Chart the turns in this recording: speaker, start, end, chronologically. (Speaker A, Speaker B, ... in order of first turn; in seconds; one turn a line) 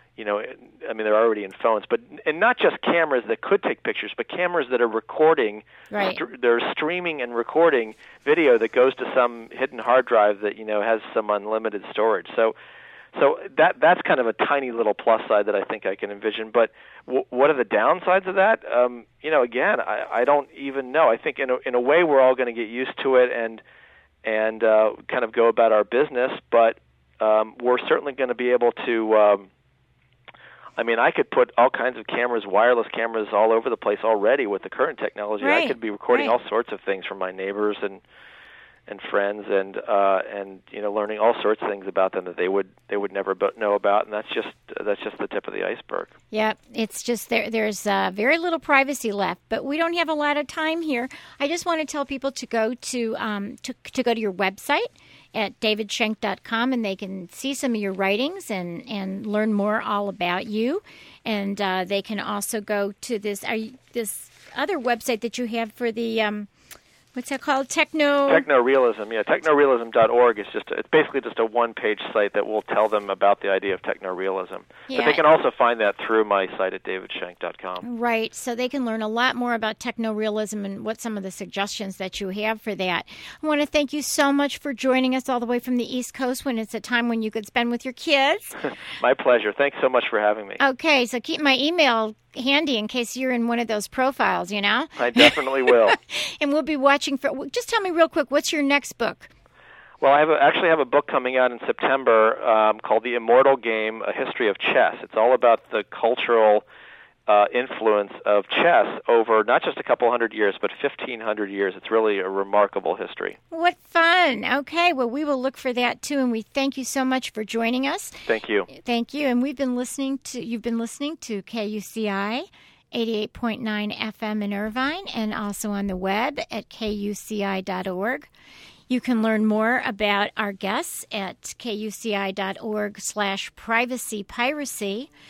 Speaker A: 0.2-12.5
Speaker B: 5.9-6.2
Speaker A: 13.2-23.6
Speaker A: 24.2-29.5
Speaker A: 30.8-38.0
Speaker B: 35.4-36.3
Speaker A: 38.9-46.1
Speaker B: 46.3-66.5
Speaker B: 67.2-68.5
Speaker A: 68.3-77.8
Speaker B: 74.9-75.2
Speaker B: 77.8-88.6
Speaker A: 89.0-90.6
Speaker B: 90.6-99.3
Speaker A: 95.0-96.0
Speaker A: 100.0-106.6
Speaker A: 107.3-113.4
Speaker B: 113.5-128.3
Speaker A: 118.3-118.7
Speaker B: 128.9-135.1